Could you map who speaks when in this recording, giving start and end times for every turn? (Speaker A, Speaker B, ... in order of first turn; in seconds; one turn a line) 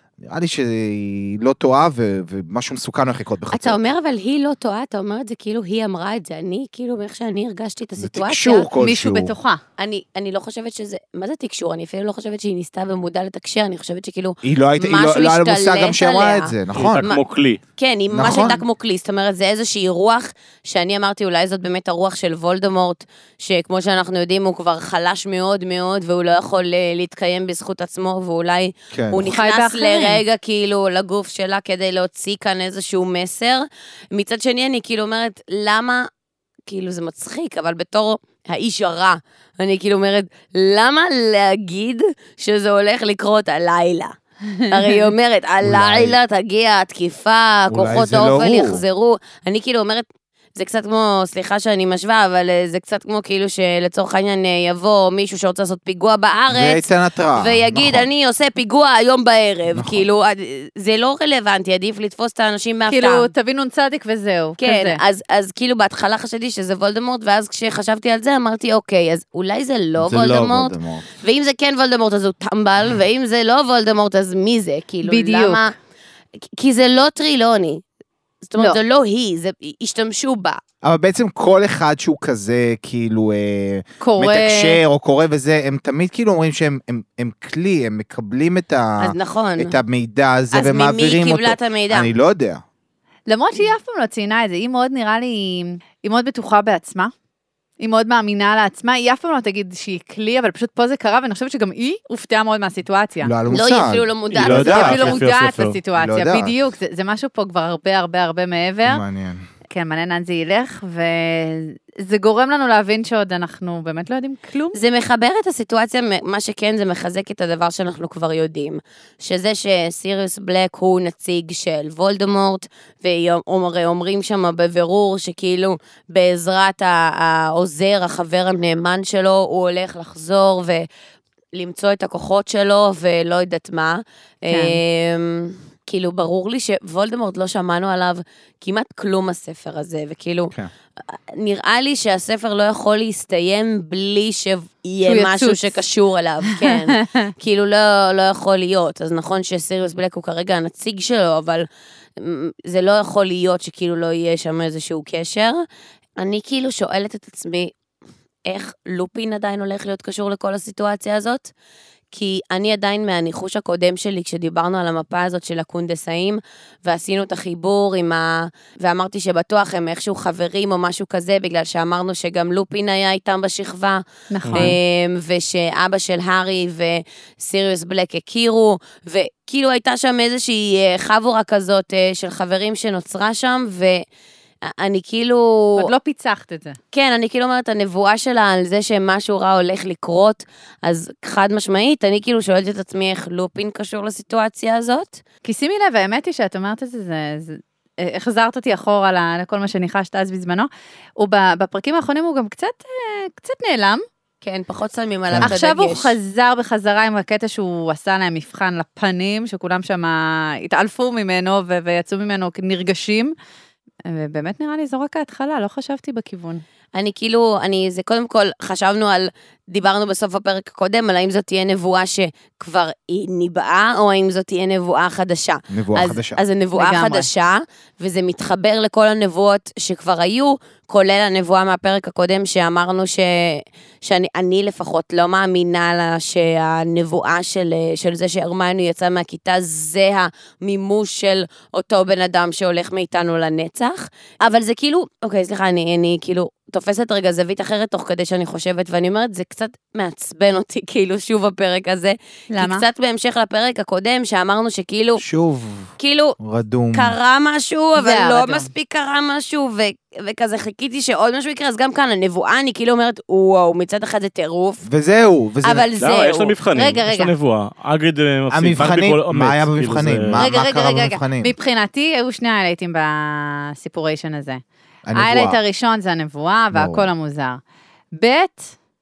Speaker A: 0.2-3.8
Speaker B: 3.5-8.7
Speaker A: 8.0-9.3
Speaker C: 8.8-9.6
Speaker B: 9.8-17.2
Speaker A: 14.4-17.0
Speaker D: 16.7-17.6
Speaker B: 17.8-36.1
Speaker A: 18.1-18.6
Speaker A: 28.9-29.3
Speaker C: 29.1-30.2
Speaker B: 36.7-44.1
Speaker B: 44.7-63.3
Speaker C: 44.7-45.0
Speaker A: 45.6-46.2
Speaker A: 47.7-48.8
Speaker A: 56.5-58.1
Speaker A: 59.7-60.0
Speaker C: 62.9-65.0
Speaker B: 64.6-75.7
Speaker A: 70.0-71.1
Speaker C: 75.0-75.7
Speaker B: 76.5-77.8
Speaker B: 78.5-80.6
Speaker A: 80.8-92.6
Speaker C: 84.0-84.8
Speaker B: 89.0-89.8
Speaker B: 90.5-92.1
Speaker C: 93.3-97.1
Speaker C: 97.8-103.3
Speaker A: 103.2-105.2
Speaker B: 103.5-105.2
Speaker D: 104.3-105.8
Speaker C: 104.5-109.0
Speaker A: 106.0-106.5
Speaker A: 108.8-109.4
Speaker C: 109.7-114.8
Speaker B: 114.7-130.9
Speaker B: 131.5-140.5
Speaker C: 134.5-134.8
Speaker B: 141.1-151.7
Speaker C: 145.0-145.7
Speaker C: 146.6-147.3
Speaker B: 152.2-155.6
Speaker B: 156.2-157.7
Speaker B: 158.4-161.5
Speaker B: 162.1-184.0
Speaker C: 174.3-174.8
Speaker D: 174.4-174.7
Speaker B: 184.6-185.9
Speaker C: 185.8-186.8
Speaker B: 186.9-195.2
Speaker C: 195.4-204.0
Speaker B: 204.4-206.2
Speaker A: 205.3-205.6
Speaker C: 205.4-213.3
Speaker C: 214.1-216.6
Speaker B: 216.9-255.2
Speaker A: 225.7-226.4
Speaker C: 226.7-227.3
Speaker C: 252.5-252.8
Speaker A: 255.2-257.1
Speaker B: 256.0-256.4
Speaker B: 256.9-264.8
Speaker C: 258.0-258.7
Speaker A: 264.8-265.9
Speaker B: 265.6-266.6
Speaker D: 266.0-270.4
Speaker C: 266.7-267.3
Speaker A: 268.5-271.5
Speaker C: 270.4-274.6
Speaker A: 275.1-275.6
Speaker C: 275.1-277.6
Speaker A: 276.7-277.1
Speaker C: 278.1-278.7